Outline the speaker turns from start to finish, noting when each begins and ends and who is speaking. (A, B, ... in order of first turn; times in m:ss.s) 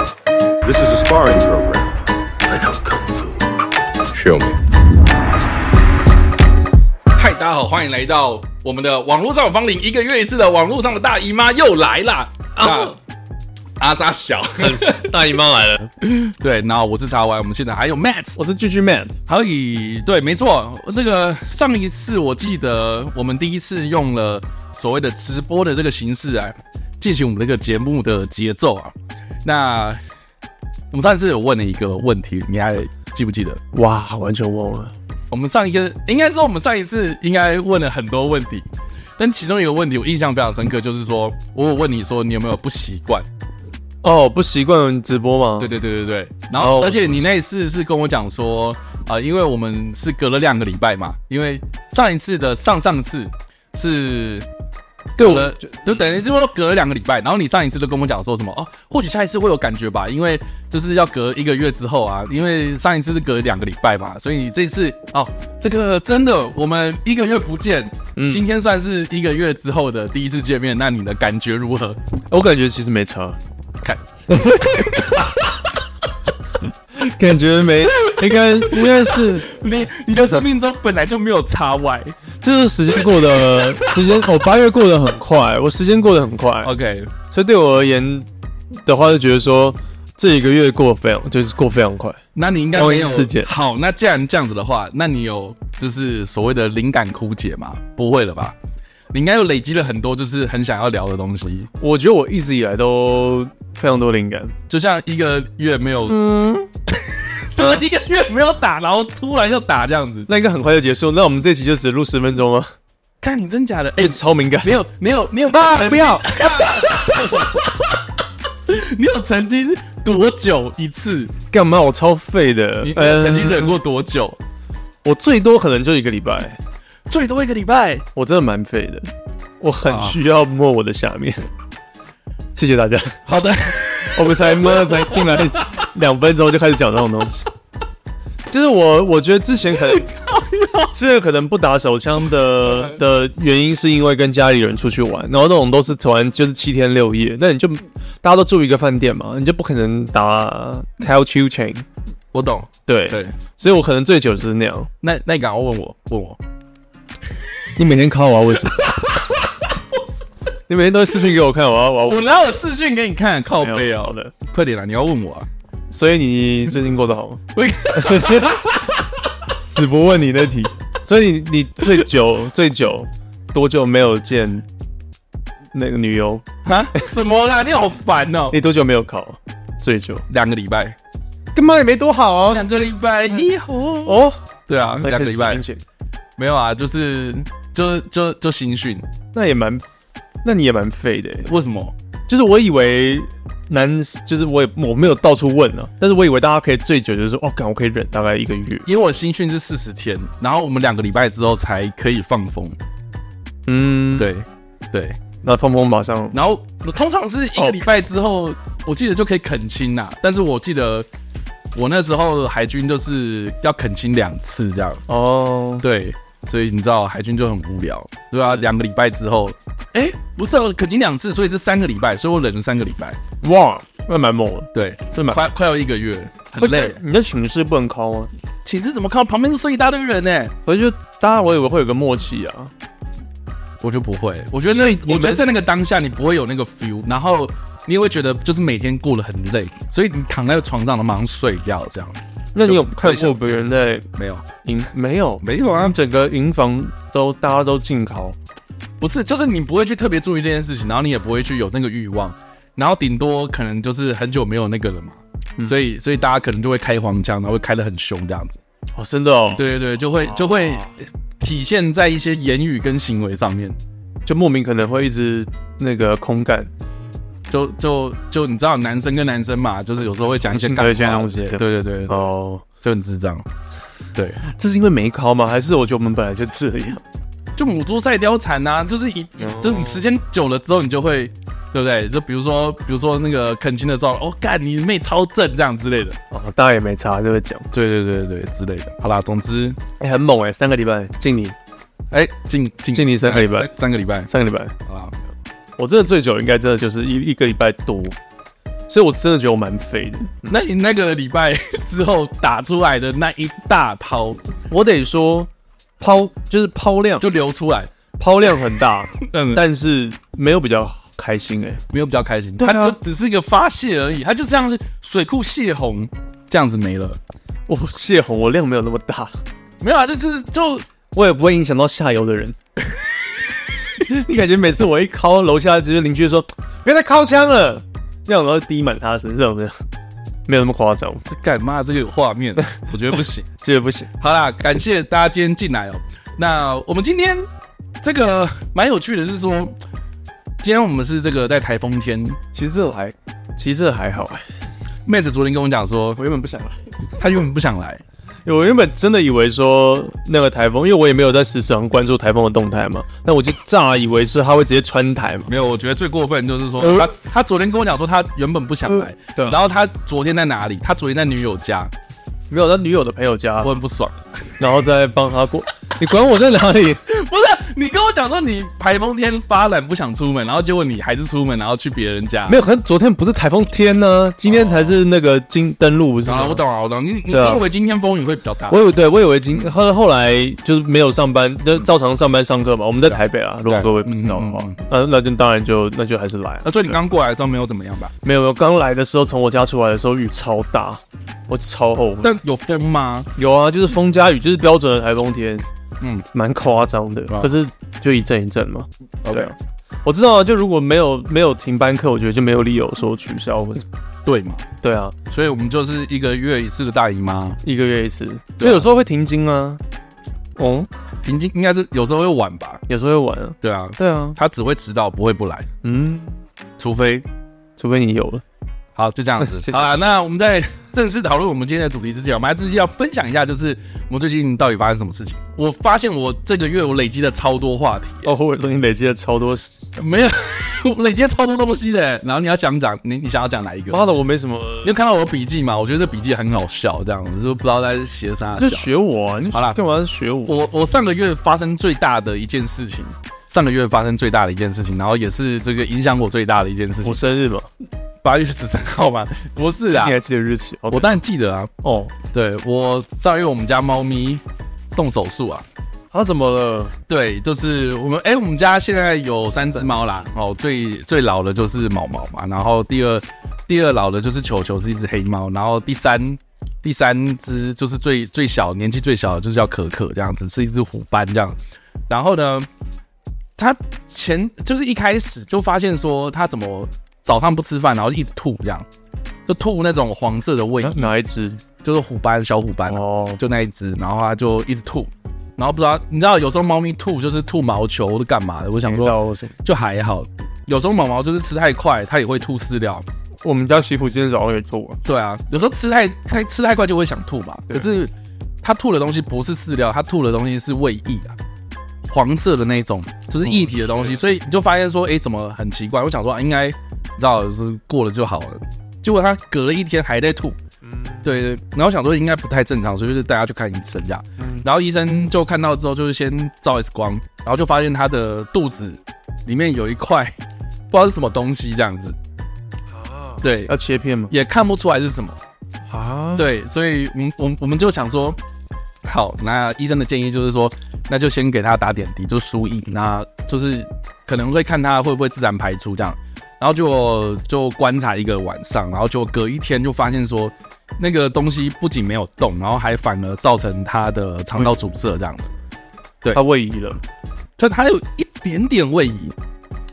0:00.6-0:02.0 A
0:02.6-0:03.2 A
0:04.1-0:04.6 A
0:07.1-0:13.0 B
0:12.6-0:13.0 C
0:13.8-0:15.2 B
0:14.6-0:15.9 C
0:16.0-0:18.4 B
0:18.4-0:19.2 C
0:19.3-0:30.0 B
0:30.9-0:33.6 B
0:33.7-0:34.9 C
0:35.3-0:43.3 B
0:44.0-0:45.7 C
0:45.6-0:54.4 B
0:46.6-0:47.2 C
0:55.2-1:12.0 B
0:55.2-0:55.7 C
1:08.2-1:08.4 C
1:12.3-1:13.4 C
1:13.8-1:15.4 B
1:14.3-1:15.1 C
1:16.9-1:19.5 C
1:18.1-1:22.2 B
1:20.1-1:20.4 C
1:22.4-1:26.7 C
1:26.6-1:27.1 B
1:27.3-1:28.3 C
1:28.8-1:32.2 C
1:32.3-1:38.6 B
1:32.7-1:33.5 C
1:39.1-1:41.7 B
1:41.8-1:44.5 C
1:44.7-1:50.3 B
1:46.1-1:46.6 C
1:50.3-1:52.7 C
1:53.2-1:57.9 B
1:54.0-1:54.8 C
1:55.5-1:56.7 C
1:58.7-2:01.3 B
2:01.5-2:03.7 C
2:02.8-2:04.4 B
2:05.0-2:06.6 C
2:07.1-2:08.0 B
2:08.1-2:09.1 C
2:09.6-2:11.4 C
2:09.9-2:10.2 B
2:12.6-2:13.2 C
2:13.2-2:15.4 B
2:14.0-2:17.5 C
2:18.5-2:20.1 C
2:19.9-2:20.9 B
2:20.9-2:31.8 C
2:32.3-2:33.3 B
2:32.9-2:34.9 C
2:35.0-2:36.4 B
2:37.8-2:39.1 C
2:38.6-2:39.0 B
2:40.7-2:42.2 C
2:42.0-2:45.5 B
2:43.6-2:44.3 C
2:45.9-2:48.6 C
2:47.5-2:49.2 B
2:49.6-2:54.6 C
2:55.7-2:57.0 C
2:56.6-2:58.6 B
2:58.5-3:00.3 C
3:00.3-3:01.0 B
3:01.5-3:02.7 C
3:02.5-3:05.6 B
3:04.0-3:04.4 C
3:05.0-3:05.8 C
3:06.4-3:09.0 B
3:09.3-3:09.8 C
3:10.4-3:11.5 C
3:11.4-3:11.9 B
3:12.3-3:18.9 C
3:18.8-3:22.8 B
3:23.7-3:24.3 C
3:24.2-3:25.2 B
3:25.4-3:26.4 C
3:26.3-3:31.1 B
3:27.6-3:27.8 C
3:31.7-3:35.0 B
3:35.1-3:35.8 C
3:35.8-3:43.2 B
3:43.4-3:45.4 C
3:44.7-3:47.0 B
3:46.6-3:48.3 C
3:48.6-3:50.5 B
3:50.6-3:52.7 C
3:53.8-4:03.4 B
3:54.7-3:55.4 C
4:02.5-4:04.1 C
4:04.2-4:04.4 B
4:04.6-4:08.4 C
4:05.4-4:06.0 B
4:09.0-4:18.6 B
4:19.0-4:19.6 C
4:19.5-4:23.8 B
4:20.2-4:20.9 C
4:24.2-4:26.7 C
4:27.5-4:32.3 B
4:30.5-4:32.6 C
4:32.8-4:33.4 B
4:34.4-4:37.0 C
4:37.6-4:46.2 B
4:39.4-4:40.0 C
4:46.3-4:47.7 C
4:47.7-4:49.8 B
4:50.0-4:51.6 C
4:52.1-4:54.3 B
4:52.9-4:53.7 C
4:54.3-4:54.7 C
4:54.8-4:55.1 B
4:55.8-4:58.2 C
4:58.9-5:00.5 C
5:00.4-5:04.4 B
5:04.7-5:05.5 C
5:06.0-5:07.2 C
5:07.2-5:07.9 B
5:08.2-5:11.8 C
5:09.2-5:09.6 B
5:11.9-5:17.2 B
5:12.6-5:13.0 C
5:17.7-5:19.3 C
5:19.8-5:20.8 B
5:21.1-5:22.6 C
5:24.0-5:29.8 C
5:30.5-5:31.2 C
5:31.2-5:33.5 B
5:33.6-5:34.1 C
5:34.2-5:37.4 B
5:38.0-5:39.8 B
5:40.6-5:42.4 B
5:42.5-5:44.4 C
5:45.0-5:46.2 B
5:46.2-5:46.8 C
5:47.2-5:48.0 B
5:48.4-5:55.5 C
5:55.5-6:01.9 B
5:56.8-5:57.1 C
5:59.3-5:59.6 C
6:02.5-6:03.8 C
6:03.6-6:04.2 B
6:04.6-6:07.0 C
6:07.1-6:12.6 B
6:12.5-6:16.6 C
6:14.5-6:14.9 B
6:16.2-6:18.8 B
6:17.3-6:17.6 C
6:18.7-6:26.9 C
6:23.1-6:24.8 B
6:26.6-6:28.1 B
6:28.2-6:32.3 C
6:32.2-6:33.3 B
6:33.4-6:35.6 C
6:36.3-6:43.8 C
6:39.2-6:39.5 B
6:44.2-6:44.7 B
6:44.8-6:45.2 C
6:45.3-6:47.6 B
6:47.6-6:49.8 C
6:48.6-6:48.9 B
6:50.6-6:50.9 C
6:51.2-6:52.8 B
6:52.9-6:54.4 C
6:53.6-6:55.7 B
6:55.8-6:56.4 C
6:56.8-6:57.3 B
6:57.8-6:58.4 C
6:58.9-7:08.3 B
6:59.4-6:59.8 C
7:08.2-7:09.8 C
7:10.0-7:14.0 B
7:13.9-7:14.9 C
7:14.8-7:18.9 B
7:18.6-7:20.6 C
7:19.5-7:19.8 B
7:20.4-7:27.2 B
7:27.0-7:27.7 C
7:28.2-7:30.2 B
7:29.9-7:31.2 C
7:30.9-7:31.7 B
7:31.8-7:32.1 C
7:32.3-7:34.4 B
7:34.9-7:35.6 B
7:36.1-7:36.9 C
7:37.1-7:51.6 B
7:52.1-7:52.7 B
7:53.6-7:58.8 B
7:59.5-8:01.1 B
8:00.8-8:01.6 C
8:01.8-8:13.0 B
8:02.8-8:03.4 C
8:08.8-8:09.5 C
8:13.4-8:15.0 C
8:15.0-8:21.4 B
8:22.1-8:30.6 B
8:23.4-8:24.2 C
8:30.8-8:31.4 C
8:31.2-8:40.4 B
8:34.4-8:34.6 C
8:40.9-8:42.2 B
8:42.9-8:44.3 C
8:43.4-8:43.7 B
8:44.3-8:45.4 B
8:45.9-8:46.5 C
8:46.4-8:48.4 B
8:49.0-9:05.5 B
9:06.3-9:07.0 C
9:07.6-9:09.4 B